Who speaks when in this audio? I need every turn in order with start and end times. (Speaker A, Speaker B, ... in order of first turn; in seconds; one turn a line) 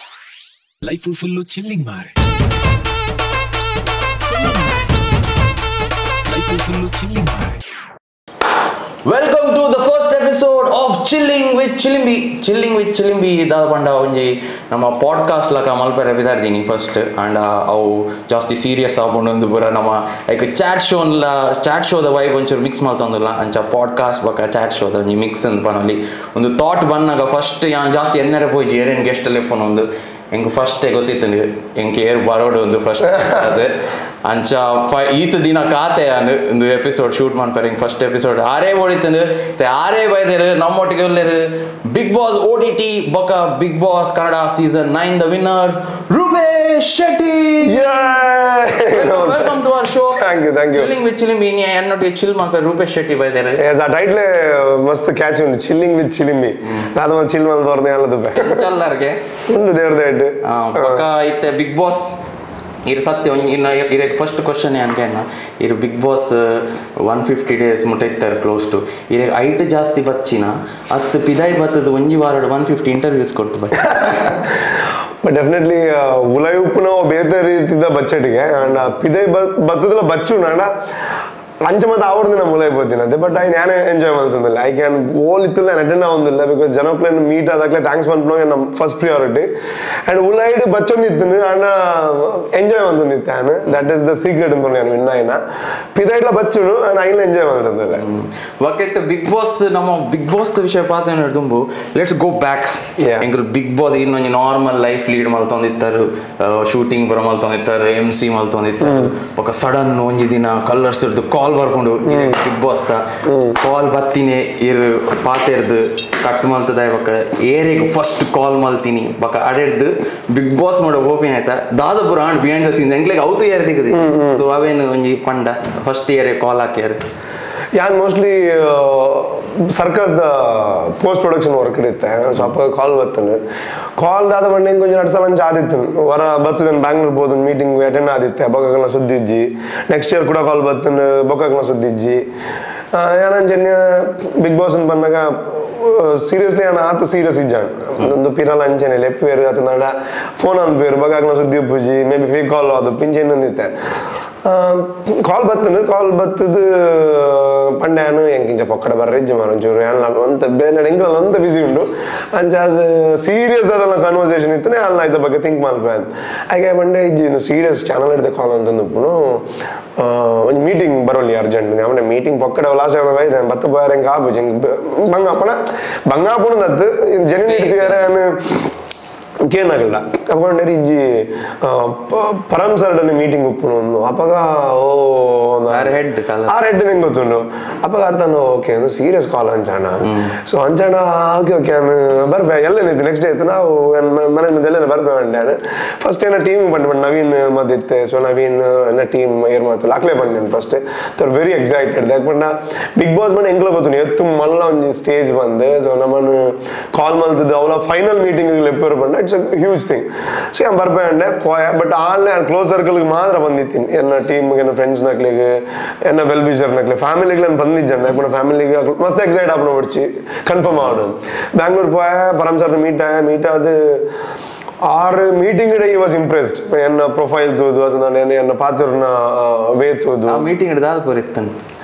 Speaker A: 0.8-2.2
Speaker A: 4.2-5.2
Speaker A: 6.3-7.6
Speaker B: 9.1-47.9
Speaker C: 47.6-49.6
Speaker B: 48.9-53.6
Speaker C: 50.1-50.9
Speaker C: 53.6-58.7
Speaker B: 58.3-59.2
Speaker C: 59.5-61.0
Speaker B: 60.4-62.2
Speaker B: 62.9-74.3
Speaker C: 73.9-74.3
Speaker C: 75.2-80.7
Speaker C: 81.6-89.5
Speaker C: 90.1-95.4
Speaker C: 96.0-98.0
Speaker B: 98.0-127.1
Speaker C: 103.0-103.2
Speaker C: 108.8-109.1
Speaker C: 112.1-112.4
Speaker C: 113.2-113.6
Speaker C: 123.9-124.4
Speaker C: 127.8-133.4
Speaker C: 134.0-142.3
Speaker C: 142.9-153.7
Speaker C: 154.4-169.5
Speaker C: 170.0-178.7
Speaker B: 177.5-178.1
Speaker C: 179.4-186.0
Speaker B: 185.7-186.6
Speaker C: 186.5-224.1
Speaker B: 190.0-190.3
Speaker C: 224.8-230.4
Speaker B: 230.3-231.6